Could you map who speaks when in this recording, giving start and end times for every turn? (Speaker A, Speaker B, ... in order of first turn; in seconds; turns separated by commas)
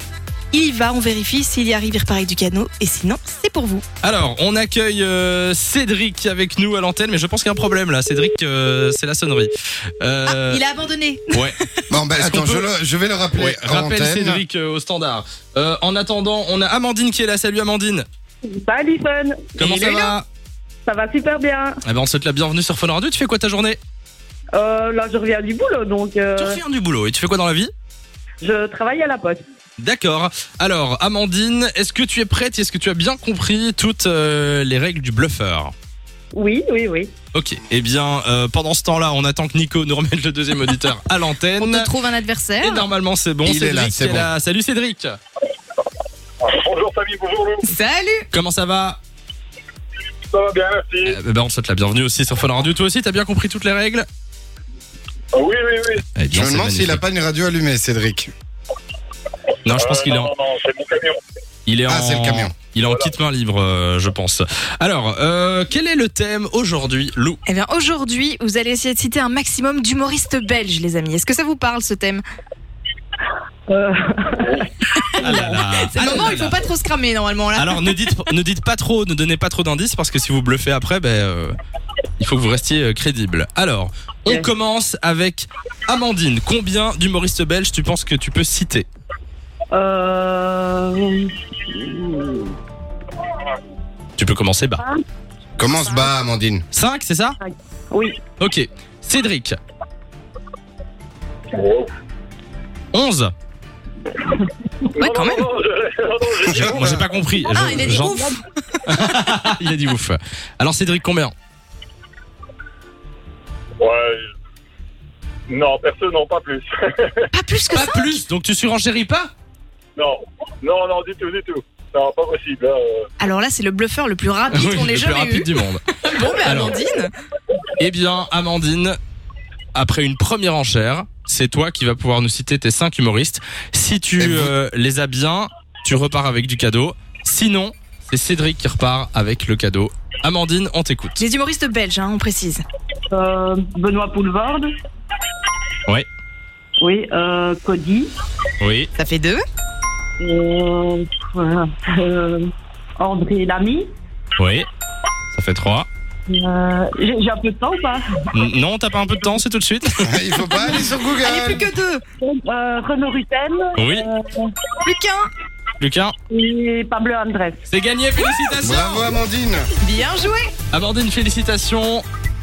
Speaker A: 0.5-3.8, Speaker B: 4.0-10.6, Speaker A: 10.3-11.8, Speaker C: 11.9-14.4, Speaker B: 12.1-12.7, Speaker B: 13.3-18.0, Speaker D: 18.4-20.1, Speaker B: 19.6-20.2, Speaker D: 20.8-21.8, Speaker B: 21.8-23.8, Speaker D: 24.5-26.6, Speaker B: 26.4-27.7, Speaker D: 28.4-29.4, Speaker B: 29.8-35.7, Speaker D: 36.3-37.1, Speaker B: 37.3-41.9, Speaker A: 41.6-42.9, Speaker B: 42.6-45.1, Speaker C: 43.5-44.3, Speaker E: 46.4-47.6, Speaker A: 47.6-48.2, Speaker B: 48.3-49.0, Speaker E: 50.3-51.1, Speaker B: 51.0-54.0, Speaker E: 55.3-56.0, Speaker B: 56.1-57.0, Speaker C: 56.3-58.3, Speaker B: 59.6-60.3, Speaker E: 59.7-61.2, Speaker B: 61.6-67.4, Speaker C: 61.9-62.5, Speaker E: 62.9-63.1, Speaker A: 67.5-72.2, Speaker D: 73.7-75.5, Speaker A: 74.9-78.3, Speaker B: 75.2-76.6, Speaker B: 77.5-81.5, Speaker B: 82.2-88.9, Speaker D: 89.7-92.5, Speaker B: 94.2-94.8, Speaker C: 95.6-96.6, Speaker B: 96.7-97.4, Speaker D: 97.4-98.2, Speaker B: 98.4-99.5, Speaker E: 101.5-101.9, Speaker B: 102.9-103.3, Speaker E: 105.0-107.1, Speaker A: 105.0-105.5, Speaker C: 106.4-107.0, Speaker B: 106.6-108.2, Speaker A: 107.4-108.9, Speaker D: 107.7-108.3, Speaker B: 108.8-111.3, Speaker E: 113.8-114.3, Speaker E: 115.5-117.3, Speaker A: 117.3-118.2, Speaker B: 117.7-119.3, Speaker E: 120.0-123.0, Speaker A: 123.2-127.1, Speaker B: 124.5-125.8, Speaker B: 126.4-126.8, Speaker B: 127.8-129.0, Speaker B: 129.7-141.2, Speaker C: 134.2-134.5, Speaker A: 141.2-142.6, Speaker D: 143.1-144.7, Speaker D: 146.8-148.1, Speaker B: 148.6-148.9, Speaker A: 148.9-149.4, Speaker D: 150.2-153.9, Speaker B: 154.4-154.7, Speaker B: 155.3-155.9, Speaker D: 156.3-158.0, Speaker B: 158.3-160.2, Speaker C: 160.0-161.7, Speaker A: 160.6-162.0, Speaker D: 162.2-164.5, Speaker B: 163.8-164.1, Speaker A: 164.8-165.3, Speaker B: 165.8-166.1, Speaker D: 166.3-167.6, Speaker B: 167.7-169.1, Speaker C: 168.6-169.7, Speaker A: 169.8-170.5, Speaker B: 170.7-172.0